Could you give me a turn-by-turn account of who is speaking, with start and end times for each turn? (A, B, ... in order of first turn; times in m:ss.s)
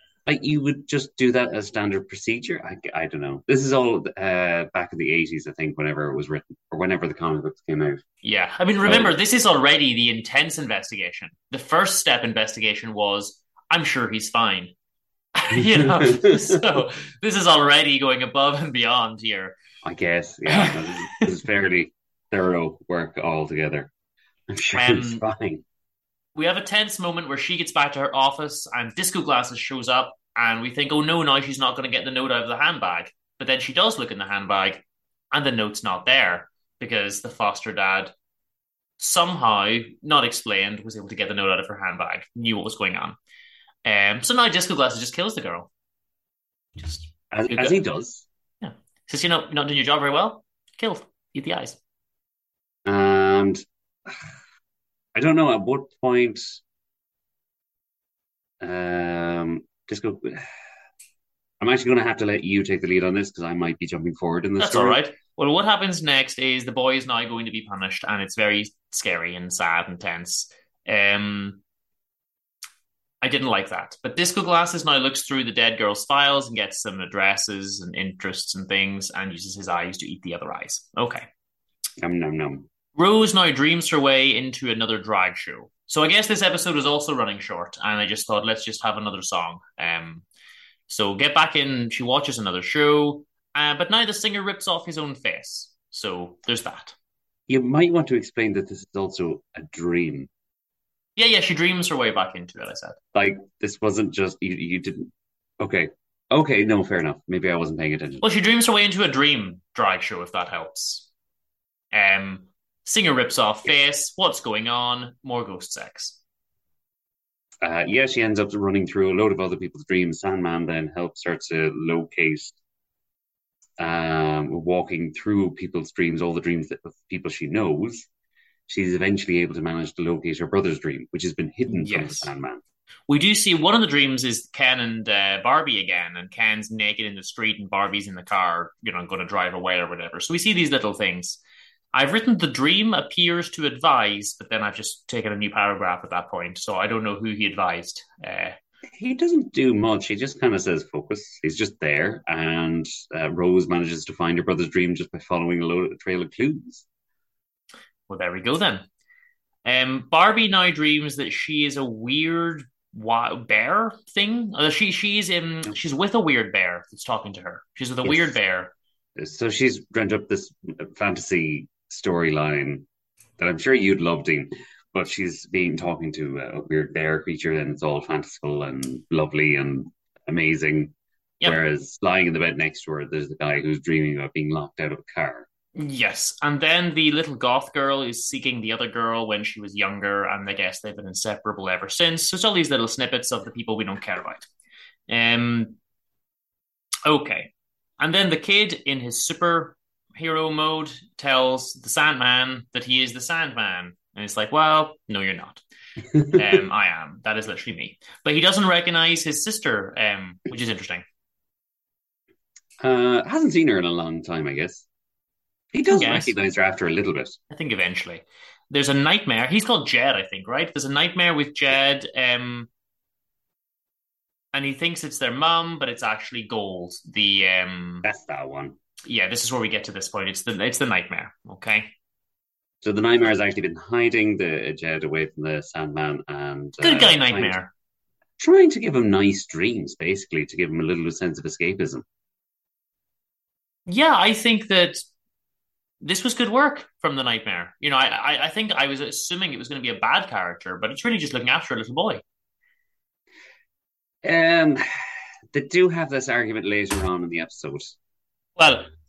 0:00.3-0:08.0 A
0:08.2-0:14.7 B
0:08.8-0:09.1 A
0:15.4-0:19.6 B
0:15.6-0:16.6 A
0:19.8-0:23.9 A
0:20.5-0:20.8 B
0:24.5-0:25.6 A
0:24.8-0:25.2 B
0:26.4-0:38.1 B
0:39.0-0:43.2 B
0:43.8-0:45.7 B
0:46.8-0:47.8 B
0:47.3-0:48.2 A
0:48.6-0:51.8 B
0:52.8-0:54.2 A
0:55.2-0:56.6 A
0:58.6-1:00.5 A
1:01.6-1:05.0 A
1:04.6-1:11.6 B
1:13.2-1:21.3 B
1:22.0-1:22.7 A
1:23.0-1:30.2 B
1:30.9-1:36.9 B
1:37.5-1:40.3 A
1:41.2-1:43.0 B
1:43.1-1:48.2 A
1:48.2-1:51.1 B
1:51.9-1:56.2 B
1:57.6-2:02.6 A
2:03.8-2:08.1 A
2:08.7-2:12.6 A
2:11.7-2:12.3 B
2:13.1-2:21.4 B
2:21.9-2:28.6 B
2:28.9-2:36.8 A
2:38.1-2:38.9 B
2:39.6-2:48.7 B
2:48.0-2:48.3 A
2:49.2-2:52.9 A
2:53.4-3:05.5 A
3:05.8-3:14.5 B
3:15.1-3:15.8 B
3:17.0-3:25.6 B
3:26.2-3:26.4 A
3:26.3-3:31.0 B
3:32.8-3:34.9 A
3:35.7-3:37.4 A
3:35.9-3:36.3 B
3:37.5-3:42.7 B
3:44.5-3:48.1 B
3:48.0-3:48.8 A
3:49.0-3:51.9 B
3:52.8-3:57.6 A
3:56.8-3:57.7 B
3:58.4-4:02.0 A
4:03.9-4:05.0 B
4:06.0-4:12.2 B
4:14.2-4:14.8 A
4:15.5-4:18.0 A
4:18.6-4:18.9 B